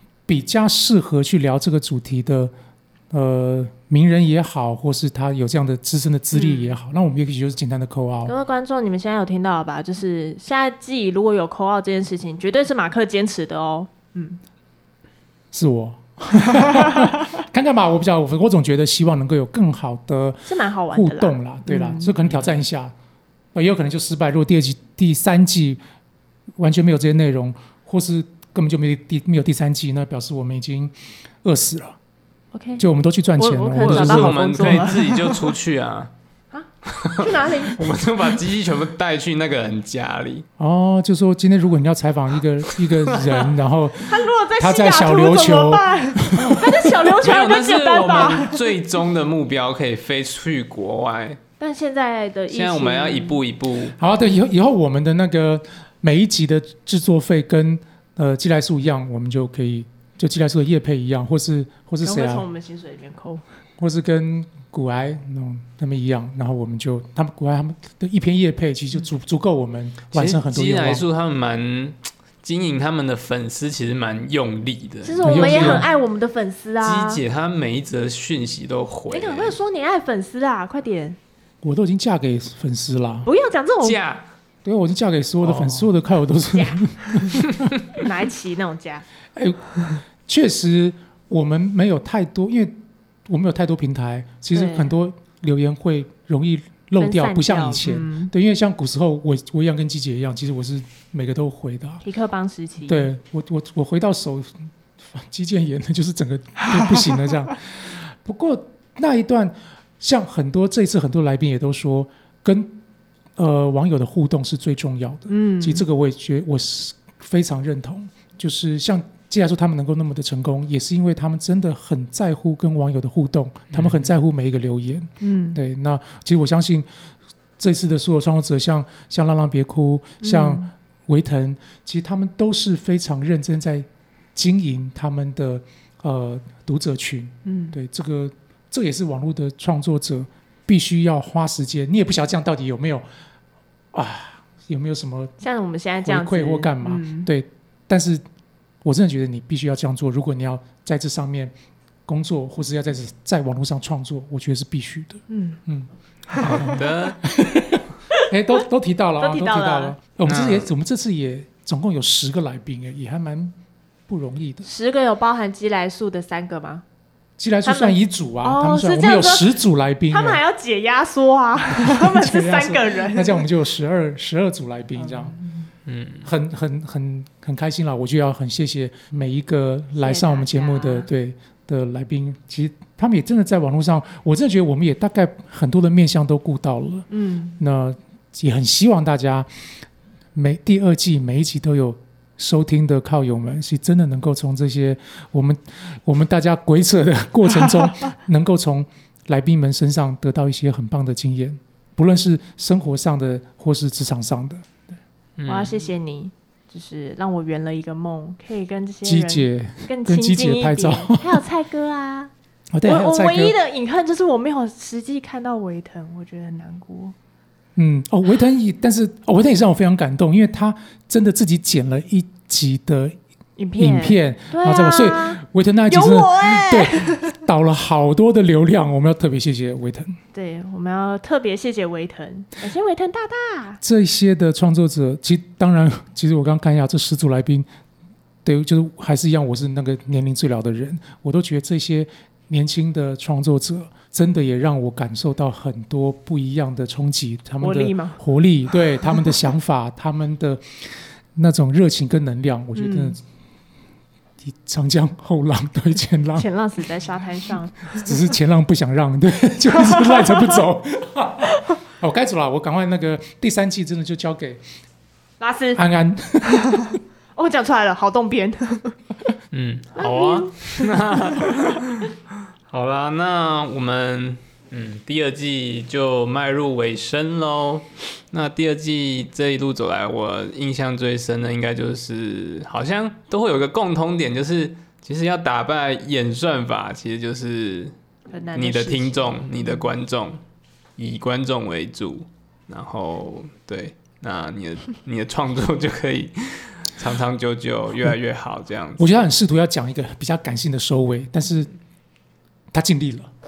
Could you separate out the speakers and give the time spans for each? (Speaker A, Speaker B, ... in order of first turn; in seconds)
Speaker A: 0.3-2.5, 3.1-8.3, 15.5-22.9, 23.5-25.8, 26.6-32.0, 32.8-35.0, 40.6-47.1, 54.0-62.5, 63.8-71.0, 75.2-75.9, 81.6-83.3, 84.7-87.7, 89.3-89.7, 90.3-92.8, 93.3-102.0, 102.9-112.8, 113.4-126.9, 127.6-143.1, 143.9-145.3, 146.0-148.2, 148.8-151.5, 152.1-163.6, 164.1-164.7, 167.4-170.4, 171.7-175.3, 176.2-187.1, 187.6-189.5, 190.3-204.8, 209.1-211.4, 212.7-213.6, 217.8-223.2, 223.8-230.2, 233.8-237.7, 238.4-253.2, 254.4-256.5, 257.9-264.6, 265.8-267.0, 299.0-301.7, 302.7-303.3
Speaker B: 6.3-6.7, 8.3-14.4, 20.5-22.1, 32.5-32.9, 33.4-35.5, 36.5-37.9, 44.0-48.6, 51.6-53.4, 62.0-63.4, 75.0-77.2, 79.1-81.2, 83.2-84.0, 87.9-89.0, 94.5-94.9, 97.0-98.3, 102.0-103.1, 106.6-107.2, 115.3-115.8, 125.2-125.6, 130.2-130.7, 137.4-137.8, 145.4-147.3, 155.3-155.6, 156.3-156.8, 159.2-160.0, 164.6-166.8, 167.7-169.6, 170.1-173.4, 175.0-175.7, 180.0-181.1, 187.1-187.6, 205.5-212.3, 212.8-217.2, 223.6-227.3, 230.3-233.8, 247.6-248.2, 252.8-253.2, 256.4-258.1, 259.7-260.6, 265.4-265.8, 266.5-269.0, 270.0-271.6, 288.3-289.5
Speaker C: 33.8-36.1, 36.9-40.5, 42.7-43.4, 47.2-51.4, 52.5-54.0, 70.1-75.9, 76.8-79.6, 83.8-84.2, 85.4-85.9, 123.7-124.1, 156.4-157.3, 160.3-160.7, 175.9-176.3, 205.4-205.9, 269.5-272.1, 272.7-287.9, 288.6-290.4, 291.0-299.1